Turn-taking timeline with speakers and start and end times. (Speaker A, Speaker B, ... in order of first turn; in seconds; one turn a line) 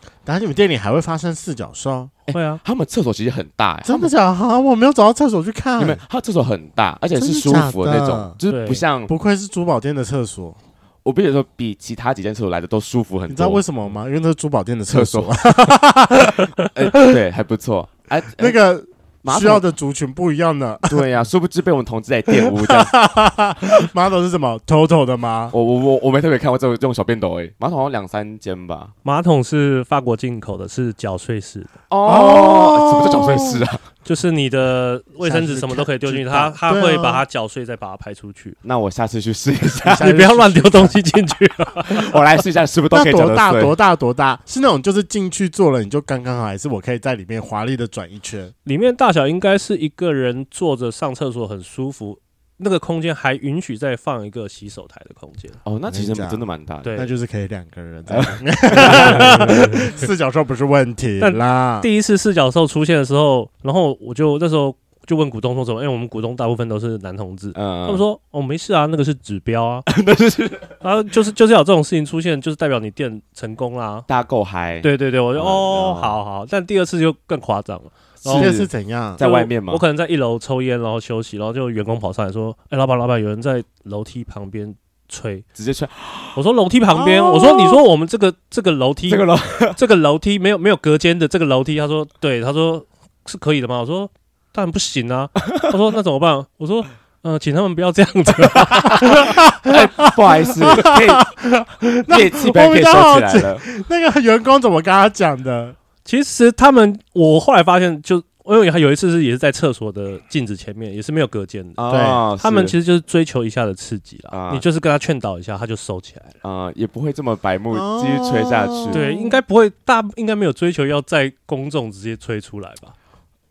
Speaker A: 0.3-2.1
Speaker B: 2.3-4.1
Speaker C: 2.3-2.6
Speaker A: 3.9-6.0
Speaker B: 5.8-9.1
Speaker A: 7.2-8.4
Speaker C: 8.5-8.8
Speaker A: 9.1-10.6
Speaker B: 11.0-13.6
Speaker A: 13.3-16.5
Speaker B: 14.9-15.8
Speaker B: 16.6-18.6
Speaker A: 18.4-21.1
Speaker B: 19.2-19.6
Speaker B: 20.9-23.0
Speaker A: 22.4-25.5
Speaker B: 25.5-28.9
Speaker C: 29.1-31.7
Speaker B: 31.9-33.9
Speaker A: 32.0-33.6
Speaker C: 34.0-38.6
Speaker A: 35.2-37.2
Speaker B: 38.6-40.1
Speaker A: 39.8-41.0
Speaker C: 39.9-42.2
Speaker B: 41.9-43.8
Speaker A: 42.9-48.5
Speaker C: 48.6-55.6
Speaker B: 55.6-56.9
Speaker A: 55.9-61.9
Speaker C: 56.8-57.1
Speaker B: 58.1-59.4
Speaker C: 58.7-59.8
Speaker C: 61.2-69.9
Speaker B: 67.5-68.0
Speaker B: 69.9-70.8
Speaker C: 70.8-74.1
Speaker B: 74.1-76.2
Speaker C: 74.8-78.5
Speaker B: 78.2-79.8
Speaker A: 78.3-79.2
Speaker C: 79.2-85.5
Speaker B: 85.5-86.4
Speaker C: 86.3-99.3
Speaker A: 86.9-87.8
Speaker B: 89.1-89.8
Speaker B: 98.8-101.3
Speaker A: 99.0-105.8
Speaker B: 102.1-103.7
Speaker C: 106.0-111.8
Speaker B: 111.8-112.8
Speaker A: 111.9-112.2
Speaker C: 112.4-116.3
Speaker B: 114.3-114.7
Speaker B: 116.4-119.0
Speaker A: 117.7-119.4
Speaker C: 118.9-123.0